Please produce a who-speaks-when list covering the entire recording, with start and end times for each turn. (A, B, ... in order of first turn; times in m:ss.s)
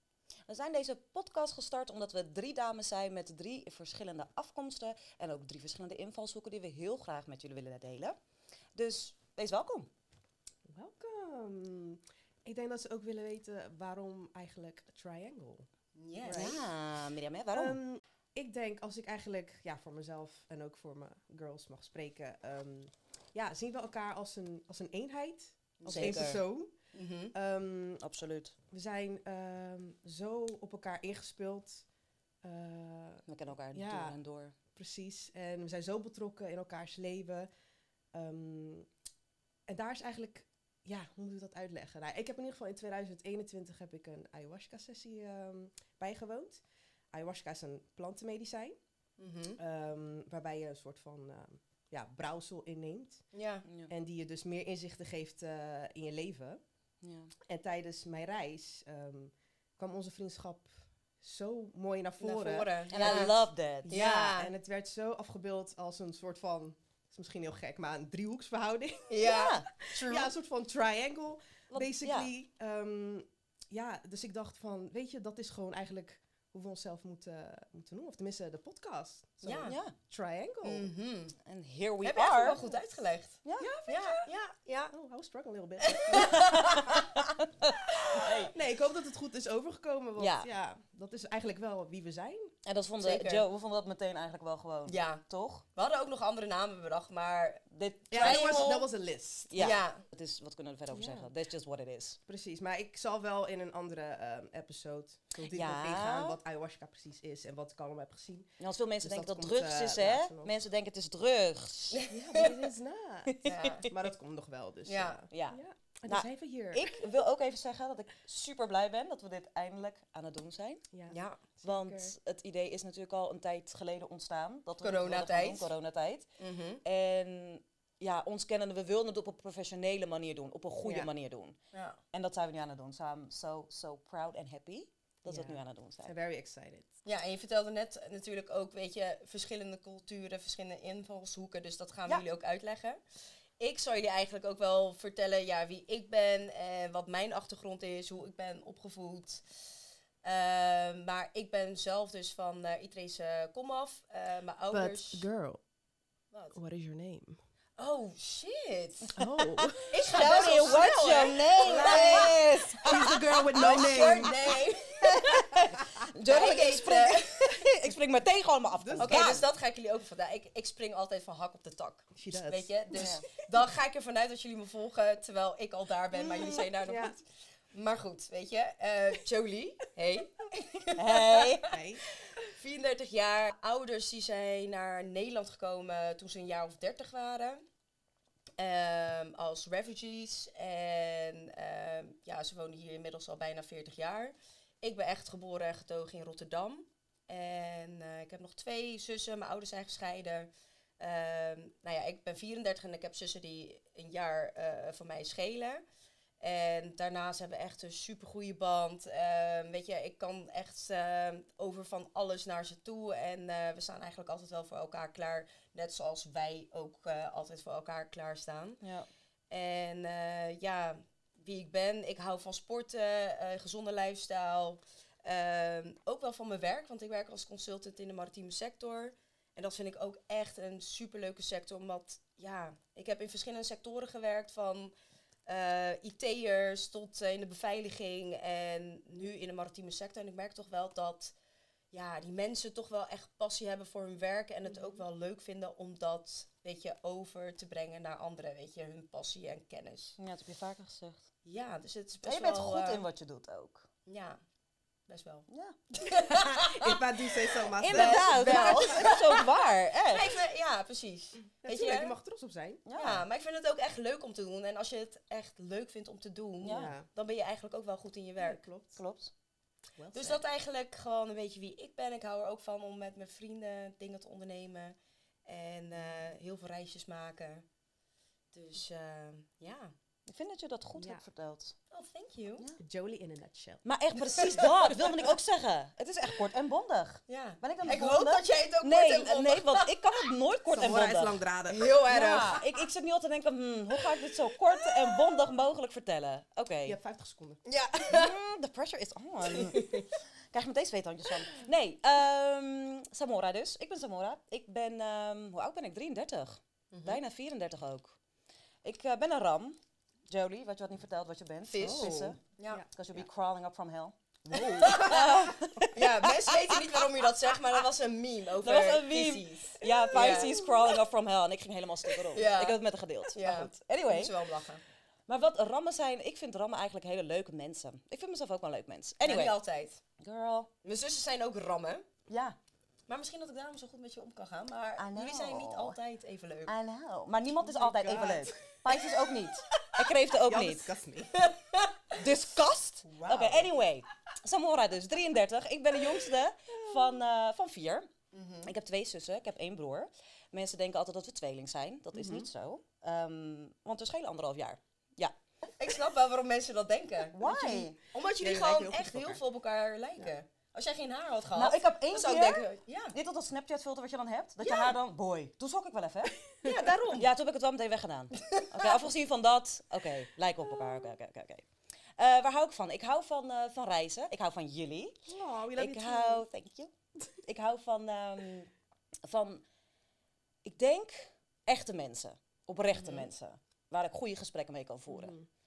0:00.5-0:08.2 A
0:08.7-0:09.9 A
0:10.7-0:15.7 B
0:15.9-0:16.6 C
0:16.2-0:16.6 B
0:16.3-0:17.8 A
0:17.5-0:26.7 B
0:25.8-0:26.4 C
0:25.8-0:26.4 A
0:26.9-0:27.3 C
0:27.3-0:28.0 B
0:28.0-0:28.5 A
0:28.7-0:31.8 B
0:32.4-0:34.2 B
0:33.3-0:34.5 A
0:34.7-0:37.5 B
0:38.1-0:38.9 B
0:39.7-0:46.6 B
0:47.1-0:48.8 B
0:49.2-0:49.6 C
0:49.6-0:53.2 B
0:53.3-0:53.6 C
0:53.9-0:56.6 B
0:57.0-0:57.3 A
0:57.5-1:00.7 B
1:01.2-1:20.9 B
1:02.2-1:04.5 C
1:02.9-1:04.0 A
1:09.1-1:10.3 C
1:09.2-1:09.6 A
1:11.7-1:12.3 A
1:19.4-1:19.8 C
1:19.6-1:19.9 A
1:20.6-1:21.4 C
1:21.4-1:22.6 A
1:22.0-1:24.9 C
1:23.4-1:23.7 A
1:23.6-1:24.3 B
1:24.9-1:27.1 B
1:25.8-1:27.1 C
1:26.1-1:28.5 A
1:27.9-1:32.5 B
1:30.2-1:30.5 A
1:32.6-1:35.6 A
1:33.0-1:33.4 C
1:34.9-1:35.2 C
1:35.7-1:38.9 C
1:37.7-1:38.7 A
1:38.1-1:39.8 B
1:39.5-1:42.2 A
1:39.6-1:40.0 C
1:40.9-1:41.3 B
1:42.3-1:50.6 B
1:45.5-1:46.4 A
1:48.6-1:52.1 A
1:51.9-1:52.5 C
1:52.1-1:57.0 B
1:53.3-1:54.0 A
1:53.4-1:53.9 C
1:54.8-1:55.3 C
1:55.3-2:00.8 A
2:00.9-2:02.1 B
2:01.1-2:01.4 C
2:01.6-2:06.3 A
2:04.8-2:05.7 C
2:06.4-2:06.8 C
2:06.8-2:11.6 A
2:10.8-2:11.1 B
2:11.7-2:12.0 C
2:12.1-2:16.1 A
2:15.3-2:16.9 B
2:17.0-2:23.0 C
2:23.6-2:29.4 C
2:30.2-2:35.2 C
2:34.7-2:35.6 B
2:36.3-2:36.6 C
2:36.5-2:37.4 B
2:37.8-2:39.1 C
2:39.1-2:44.6 B
2:39.2-2:44.3 A
2:39.9-2:45.6 C
2:45.0-2:49.4 A
2:46.2-2:47.7 C
2:48.7-2:49.4 B
2:49.0-3:01.7 C
2:52.1-2:53.2 B
2:52.9-2:53.2 A
2:56.2-2:56.7 A
2:56.8-2:57.2 B
3:01.0-3:01.7 A
3:01.7-3:02.0 B
3:02.3-3:07.6 C
3:08.6-3:25.8 C
3:26.4-3:38.8 C
3:38.8-3:39.1 A
3:39.5-3:54.9 C
3:55.5-4:01.3 C
4:01.9-4:10.2 C
4:10.2-4:11.3 A
4:11.4-4:13.0 C
4:12.2-4:13.8 A
4:14.0-4:14.4 C
4:15.1-4:17.0 C
4:15.5-4:15.8 A
4:16.3-4:19.1 B
4:17.7-4:20.4 A
4:17.9-4:19.5 C
4:20.1-4:22.2 C
4:21.6-4:22.8 B
4:22.8-4:23.2 A
4:22.9-4:28.6 C
4:26.6-4:26.9 A
4:26.6-4:27.1 B
4:28.4-4:29.0 B
4:29.0-4:29.3 A
4:30.0-4:30.4 B
4:30.1-4:37.6 C
4:38.5-4:39.9 C
4:40.3-4:41.7 A
4:40.9-4:41.2 B
4:41.9-4:42.6 C
4:42.8-4:43.8 B
4:43.8-4:51.4 A
4:44.3-4:45.0 C
4:47.3-4:50.0 C
4:50.6-4:52.6 B
4:51.7-4:52.8 C
4:52.1-4:57.0 A
4:56.8-4:57.6 B
4:57.6-4:58.3 C
4:58.0-5:08.1 A
4:59.5-5:00.1 C
5:06.9-5:07.2 C
5:08.8-5:09.8 A
5:10.3-5:17.0 A
5:11.7-5:12.8 C
5:11.8-5:12.8 B
5:14.5-5:15.3 B
5:14.5-5:20.9 C
5:18.6-5:24.4 A
5:20.1-5:20.7 B
5:22.3-5:24.8 C
5:25.3-5:29.5 A
5:29.2-5:30.0 C
5:30.2-5:30.7 A
5:30.8-5:32.1 C
5:32.3-5:32.6 A
5:33.1-5:36.7 C
5:35.0-5:36.0 A
5:36.7-5:40.9 A
5:37.6-5:38.6 B
5:40.4-5:41.5 B
5:41.3-5:42.2 C
5:42.1-5:48.1 A
5:43.0-5:43.7 C
5:46.7-5:47.2 B
5:48.3-5:48.7 C
5:48.6-5:55.3 A
5:52.1-5:52.5 B
5:55.8-6:03.1 C
5:57.3-5:58.0 A
5:58.2-5:59.4 B
6:01.5-6:06.4 A
6:04.6-6:04.9 C
6:06.6-6:07.3 C
6:07.1-6:11.6 A
6:08.4-6:08.9 C
6:12.2-6:15.2 A
6:15.2-6:16.4 B
6:15.8-6:16.9 A
6:17.4-6:18.7 A
6:19.2-6:19.6 A
6:20.6-6:25.4 A
6:23.0-6:23.3 C
6:25.1-6:25.4 B